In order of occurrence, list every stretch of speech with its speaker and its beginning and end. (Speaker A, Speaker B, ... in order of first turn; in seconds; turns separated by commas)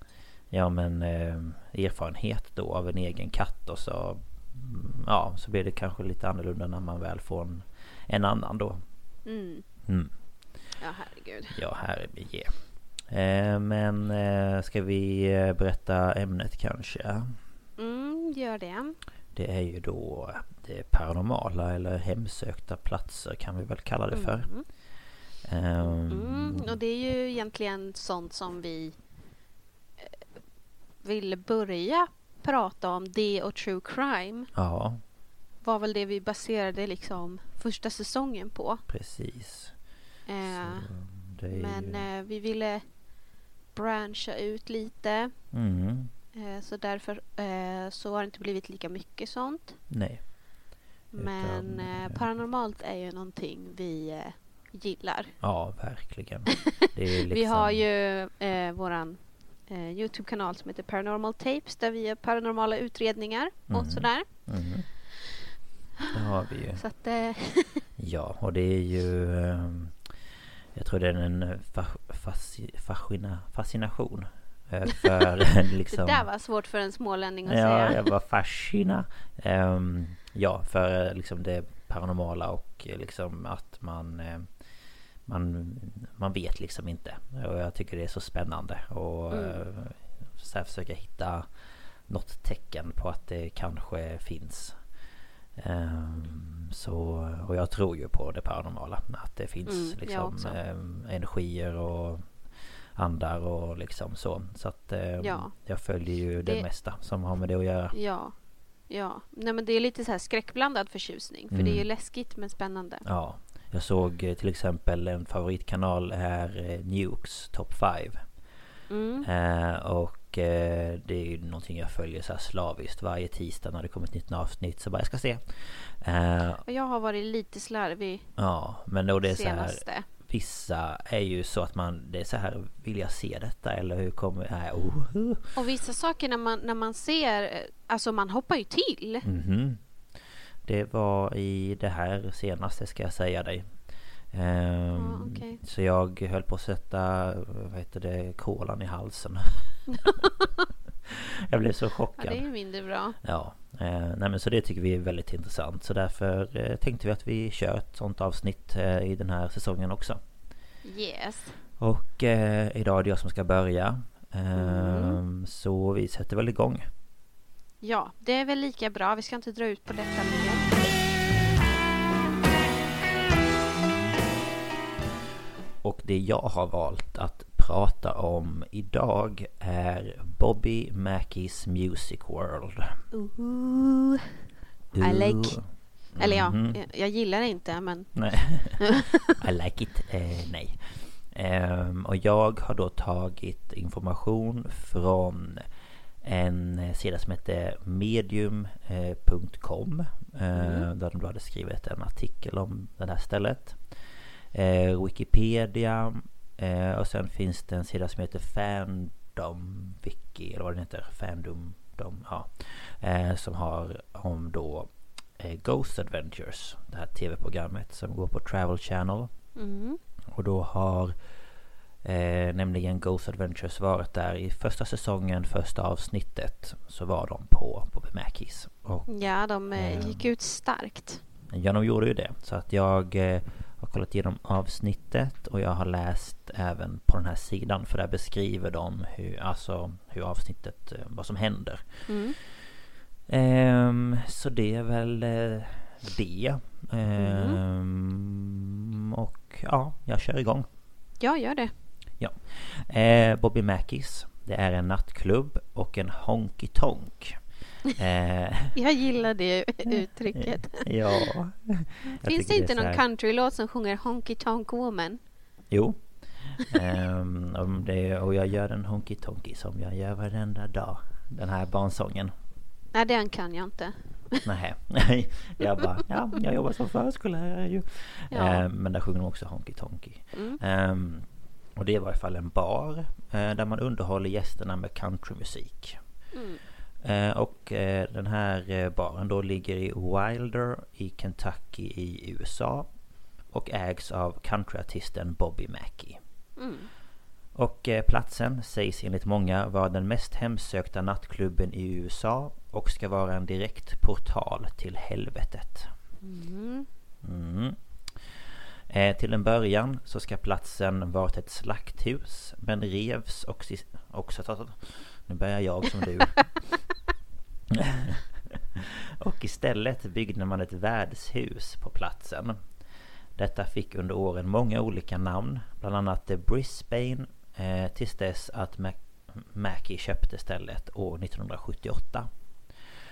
Speaker A: 0.5-8.8, Speaker B: 9.2-9.7, Speaker A: 9.9-10.1, Speaker B: 10.8-11.6, Speaker A: 11.5-17.4, Speaker B: 17.8-19.0, Speaker A: 19.3-24.5, Speaker B: 24.1-24.6, Speaker A: 25.4-26.8, Speaker B: 25.8-29.0, Speaker B: 31.0-34.5, Speaker A: 34.5-35.0, Speaker B: 35.6-38.8, Speaker A: 38.9-39.8, Speaker B: 40.3-40.9, Speaker A: 40.4-42.1, Speaker B: 41.5-42.9, Speaker B: 43.8-45.3, Speaker A: 45.5-46.1, Speaker B: 46.3-49.8, Speaker A: 49.9-50.3, Speaker B: 51.1-55.4, Speaker A: 51.2-52.2, Speaker A: 55.4-57.8, Speaker B: 57.3-64.3, Speaker A: 63.7-64.9, Speaker A: 66.1-66.8, Speaker B: 66.8-67.8, Speaker A: 68.0-70.1, Speaker A: 70.7-76.3, Speaker B: 75.9-78.0, Speaker A: 77.5-84.5, Speaker A: 85.3-91.5, Speaker B: 89.3-89.6, Speaker A: 92.1-94.8, Speaker A: 95.6-102.4, Speaker B: 99.7-100.6, Speaker A: 103.0-108.0, Speaker B: 105.2-105.5, Speaker B: 107.9-108.3, Speaker B: 108.9-113.0, Speaker A: 111.5-111.9, Speaker A: 113.1-118.3, Speaker B: 118.9-119.3, Speaker A: 119.2-126.6, Speaker B: 126.7-128.3, Speaker A: 128.4-135.6, Speaker B: 129.2-130.1, Speaker B: 135.6-139.3, Speaker A: 139.2-139.8, Speaker A: 140.6-143.8, Speaker A: 144.3-150.2, Speaker B: 145.0-145.6, Speaker A: 151.1-152.5, Speaker B: 152.2-153.2, Speaker A: 153.2-160.2, Speaker B: 160.8-161.6, Speaker A: 161.8-166.9, Speaker B: 164.6-165.2, Speaker B: 167.8-170.8, Speaker A: 175.8-183.0, Speaker B: 183.1-184.2, Speaker A: 184.9-186.8, Speaker B: 185.0-185.6, Speaker B: 186.2-189.2, Speaker A: 188.2-195.7, Speaker A: 196.2-219.3, Speaker B: 200.6-200.9, Speaker B: 219.6-220.0, Speaker A: 220.3-221.2, Speaker A: 222.0-229.1, Speaker B: 229.1-231.2, Speaker A: 229.7-230.3, Speaker A: 231.5-242.6, Speaker B: 242.1-242.4, Speaker A: 243.3-250.7, Speaker B: 247.2-247.6, Speaker B: 251.2-251.7, Speaker A: 252.2-257.4, Speaker A: 257.9-258.8, Speaker B: 258.8-260.9, Speaker A: 260.0-263.0, Speaker B: 262.2-265.2, Speaker A: 265.7-272.3, Speaker B: 272.9-274.4, Speaker A: 274.4-286.0, Speaker B: 278.3-278.6, Speaker B: 280.3-280.6, Speaker B: 286.3-286.6, Speaker A: 287.0-292.9, Speaker A: 293.5-296.2, Speaker B: 296.6-296.9, Speaker A: 297.6-305.9, Speaker B: 306.2-306.9, Speaker A: 307.2-316.8, Speaker A: 317.7-322.6, Speaker A: 323.4-332.3